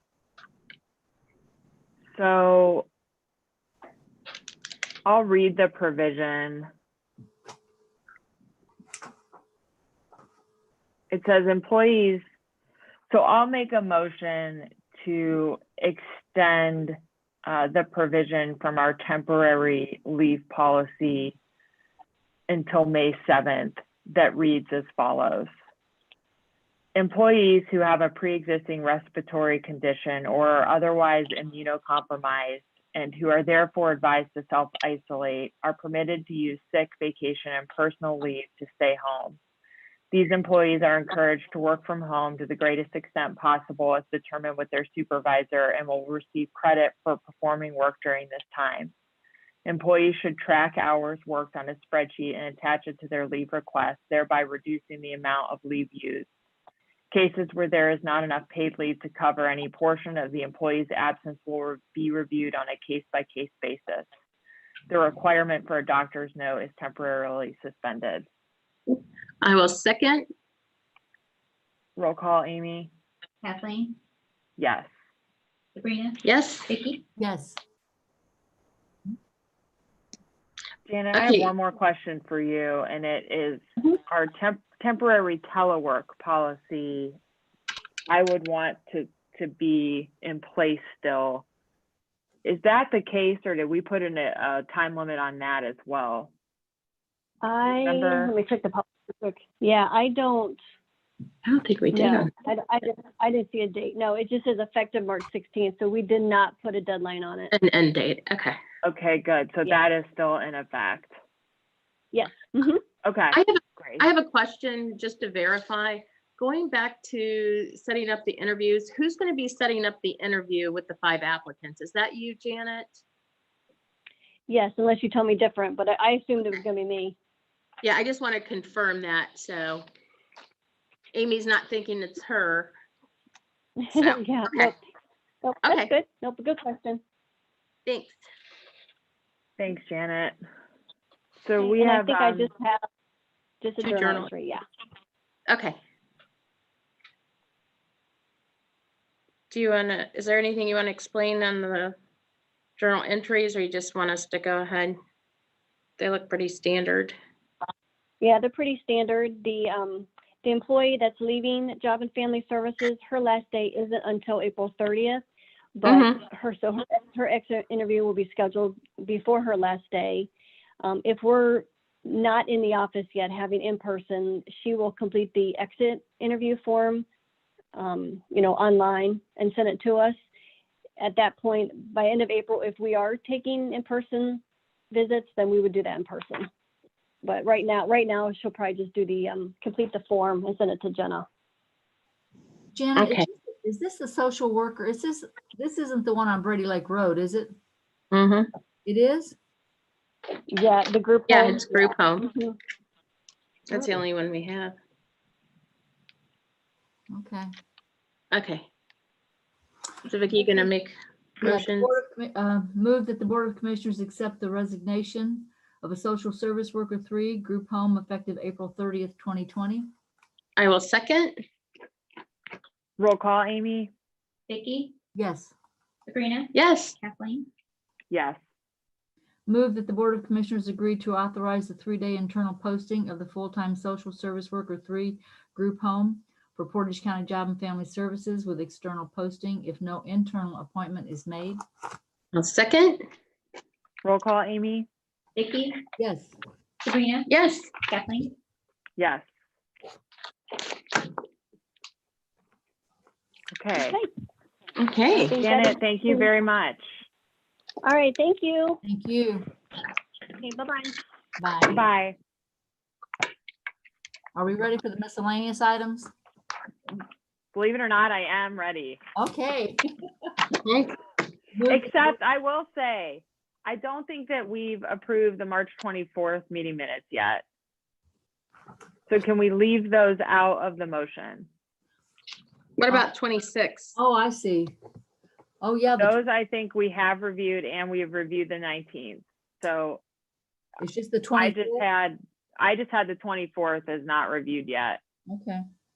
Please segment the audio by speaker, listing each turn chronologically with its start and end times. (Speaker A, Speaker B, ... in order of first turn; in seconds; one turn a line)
Speaker A: 2.1-2.9
Speaker A: 5.0-6.7
Speaker A: 11.1-12.2
Speaker A: 13.1-21.4
Speaker A: 22.5-25.5
Speaker A: 26.9-39.4
Speaker A: 40.1-48.9
Speaker A: 49.6-56.3
Speaker A: 57.1-64.1
Speaker A: 64.9-68.2
Speaker B: 68.9-70.2
Speaker A: 72.0-72.9
Speaker C: 73.4-73.9
Speaker A: 74.6-74.9
Speaker C: 75.7-77.0
Speaker B: 76.2-76.7
Speaker D: 77.2-77.6
Speaker A: 80.8-87.2
Speaker B: 81.1-81.5
Speaker A: 88.1-91.4
Speaker A: 92.4-96.3
Speaker E: 97.4-100.6
Speaker A: 97.8-98.3
Speaker B: 101.4-102.3
Speaker E: 101.9-107.5
Speaker B: 107.5-108.6
Speaker A: 108.8-111.1
Speaker E: 112.1-112.8
Speaker A: 113.0-114.0
Speaker B: 113.3-123.0
Speaker E: 124.5-127.2
Speaker B: 127.8-129.9
Speaker B: 131.1-132.7
Speaker E: 133.8-134.8
Speaker B: 133.9-134.7
Speaker E: 135.4-137.0
Speaker B: 135.6-135.9
Speaker B: 137.8-138.2
Speaker A: 139.6-140.3
Speaker A: 141.4-142.5
Speaker E: 141.6-142.8
Speaker E: 143.6-144.6
Speaker B: 143.8-144.3
Speaker B: 145.5-145.8
Speaker B: 149.5-151.9
Speaker B: 152.8-154.9
Speaker B: 156.0-157.1
Speaker E: 158.2-165.2
Speaker E: 165.8-177.0
Speaker B: 165.8-166.2
Speaker E: 177.7-180.2
Speaker E: 181.0-186.5
Speaker E: 187.2-191.3
Speaker D: 192.7-197.5
Speaker B: 193.0-193.2
Speaker B: 198.1-198.5
Speaker D: 198.8-199.4
Speaker E: 200.5-202.6
Speaker B: 201.3-202.3
Speaker B: 203.7-204.7
Speaker D: 207.1-207.5
Speaker B: 208.3-208.7
Speaker B: 210.0-211.9
Speaker D: 211.4-219.9
Speaker B: 220.6-221.4
Speaker A: 223.0-223.9
Speaker C: 224.5-224.9
Speaker D: 225.1-225.5
Speaker C: 226.1-227.5
Speaker B: 226.5-226.9
Speaker A: 228.1-228.4
Speaker D: 229.5-241.6
Speaker B: 242.3-243.0
Speaker A: 244.0-244.9
Speaker C: 245.3-245.8
Speaker D: 246.0-246.3
Speaker C: 246.8-247.3
Speaker B: 247.3-247.7
Speaker C: 247.8-248.3
Speaker A: 249.0-249.2
Speaker A: 253.5-254.0
Speaker E: 253.8-254.1
Speaker B: 254.8-255.3
Speaker E: 255.1-256.3
Speaker A: 255.4-256.9
Speaker E: 257.8-258.8
Speaker D: 258.8-259.5
Speaker E: 260.4-261.0
Speaker D: 261.4-261.8
Speaker A: 261.7-262.1
Speaker D: 264.3-266.1
Speaker A: 267.5-269.0
Speaker D: 269.1-270.3
Speaker B: 270.6-271.0
Speaker D: 271.5-272.1
Speaker A: 271.7-277.4
Speaker A: 279.1-281.5
Speaker B: 282.8-283.9
Speaker D: 283.9-284.7
Speaker D: 285.6-286.1
Speaker A: 286.0-290.0
Speaker D: 290.8-291.8
Speaker A: 291.4-295.0
Speaker D: 295.3-295.6